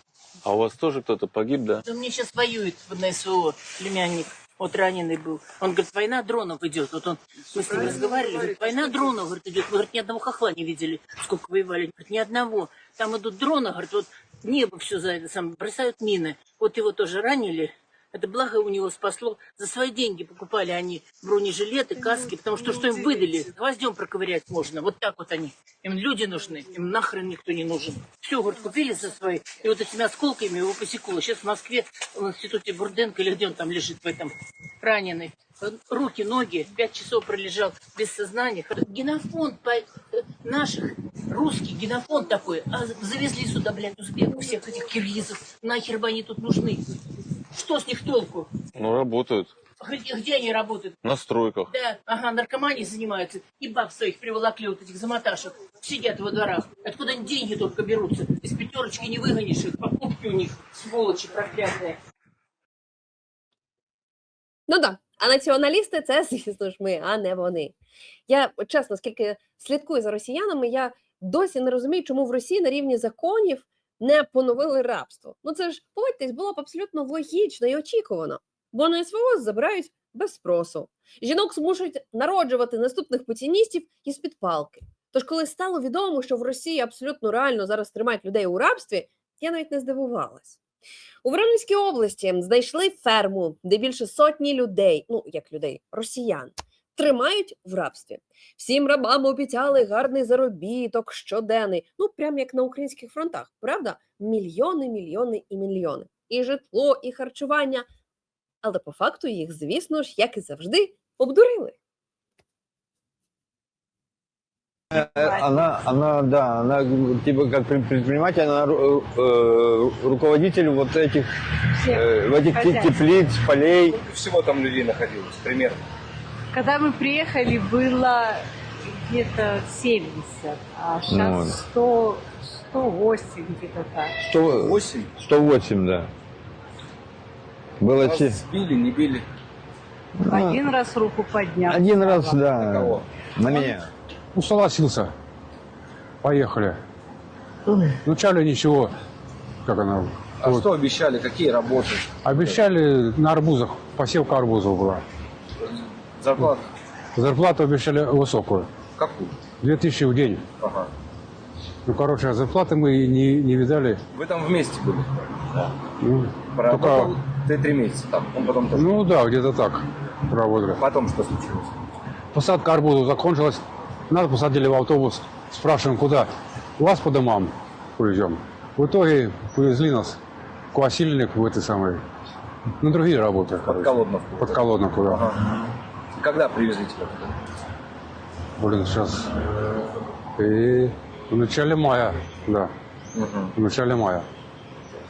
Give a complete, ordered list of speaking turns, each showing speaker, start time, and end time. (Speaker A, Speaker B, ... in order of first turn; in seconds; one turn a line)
Speaker A: 0.4-1.8
Speaker B: 1.8-46.9
Speaker B: 47.5-48.5
Speaker A: 48.8-49.5
Speaker B: 49.8-51.0
Speaker A: 51.0-51.7
Speaker B: 51.7-62.0
Speaker C: 64.7-67.7
Speaker C: 68.3-90.6
Speaker C: 91.2-107.9
Speaker C: 108.6-111.8
Speaker D: 114.9-121.3
Speaker E: 114.9-115.6
Speaker E: 121.8-123.0
Speaker D: 121.8-124.0
Speaker F: 123.9-125.8
Speaker E: 126.5-128.4
Speaker E: 129.0-134.2
Speaker D: 131.1-131.6
Speaker D: 134.2-136.1
Speaker F: 134.6-135.1
Speaker D: 137.8-138.4
Speaker F: 137.9-139.2
Speaker D: 140.2-140.6
Speaker E: 140.3-142.4
Speaker D: 141.7-143.9
Speaker F: 142.5-143.0
Speaker E: 143.5-143.7
Speaker G: 144.3-145.1
Speaker G: 146.2-146.8
Speaker G: 148.1-148.9
Speaker G: 149.6-150.6
Speaker F: 150.4-152.6
Speaker G: 152.2-155.0
Speaker F: 156.2-156.6
Speaker G: 157.2-158.7
Speaker F: 158.9-159.3
Speaker G: 159.6-160.4
Speaker F: 160.6-160.9
Speaker G: 161.8-164.0
Speaker F: 164.1-165.7
Speaker G: 166.0-167.1
Speaker F: 166.5-169.0
Speaker G: 168.8-170.8
Speaker F: 170.8-171.7
Speaker G: 172.3-180.2
Speaker G: 180.7-182.0
Speaker G: 182.8-185.2
Speaker F: 183.6-185.5
Speaker F: 186.2-187.3
Speaker G: 188.6-189.3
Speaker G: 190.3-192.7
Speaker F: 193.1-193.5
Speaker G: 193.6-194.2